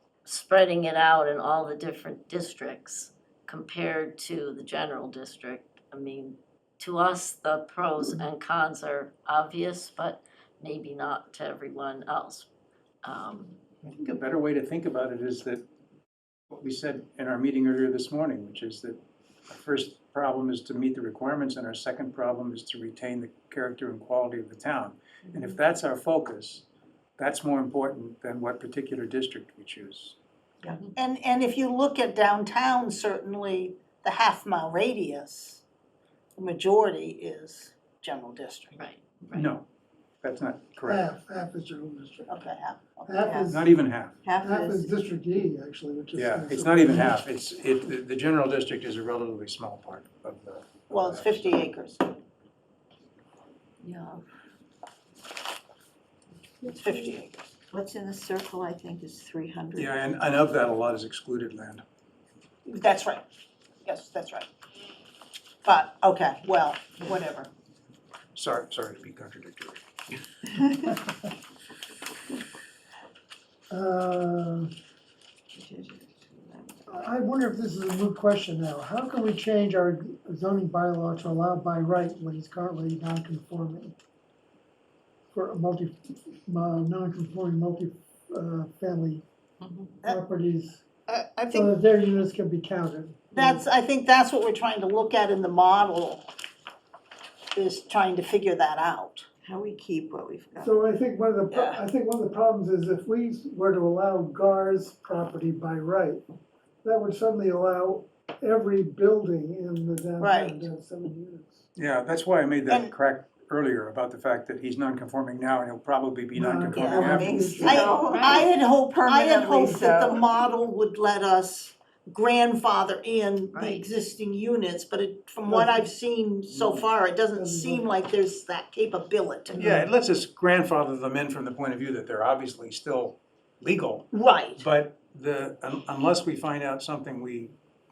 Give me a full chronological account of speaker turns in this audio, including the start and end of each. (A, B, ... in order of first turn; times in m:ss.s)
0:00.2-0:12.5 A
0:13.0-0:13.6 A
0:13.8-0:15.6 B
0:16.5-0:26.6 B
0:27.2-0:30.2 B
0:30.6-0:30.9 C
0:31.0-0:35.6 D
0:36.4-0:38.8 D
0:38.8-0:39.5 A
0:39.3-0:39.6 B
0:40.2-0:41.0 B
0:40.8-0:42.4 E
0:42.3-0:43.1 D
0:43.1-0:43.8 E
0:43.2-0:43.6 C
0:43.5-0:44.2 B
0:44.2-0:44.9 C
0:44.4-0:47.2 E
0:46.2-0:51.5 B
0:50.9-0:52.2 D
0:53.8-0:54.2 C
0:56.7-0:57.4 D
0:57.7-1:00.0 C
0:59.8-1:01.8 B
1:02.7-1:03.2 D
1:03.8-1:04.5 D
1:05.6-1:07.5 D
1:08.4-1:09.8 B
1:13.7-1:14.7 E
1:15.5-1:17.1 C
1:16.9-1:24.0 E
1:25.3-1:29.2 E
1:30.0-1:30.8 E
1:31.1-1:31.7 D
1:31.5-1:33.6 E
1:33.3-1:36.3 D
1:37.6-1:39.3 D
1:39.4-1:40.8 C
1:40.6-1:46.2 E
1:46.8-1:51.6 E
1:50.2-1:50.7 D
1:51.8-1:57.4 B
1:52.7-1:52.9 D
1:56.3-1:58.0 E
1:56.8-2:09.7 D
1:56.9-2:00.2 C
1:58.1-1:58.4 A
2:03.6-2:03.8 C
2:05.5-2:05.9 E
2:06.5-2:07.9 E
2:09.5-2:09.9 E
2:09.6-2:17.5 B
2:14.1-2:14.6 D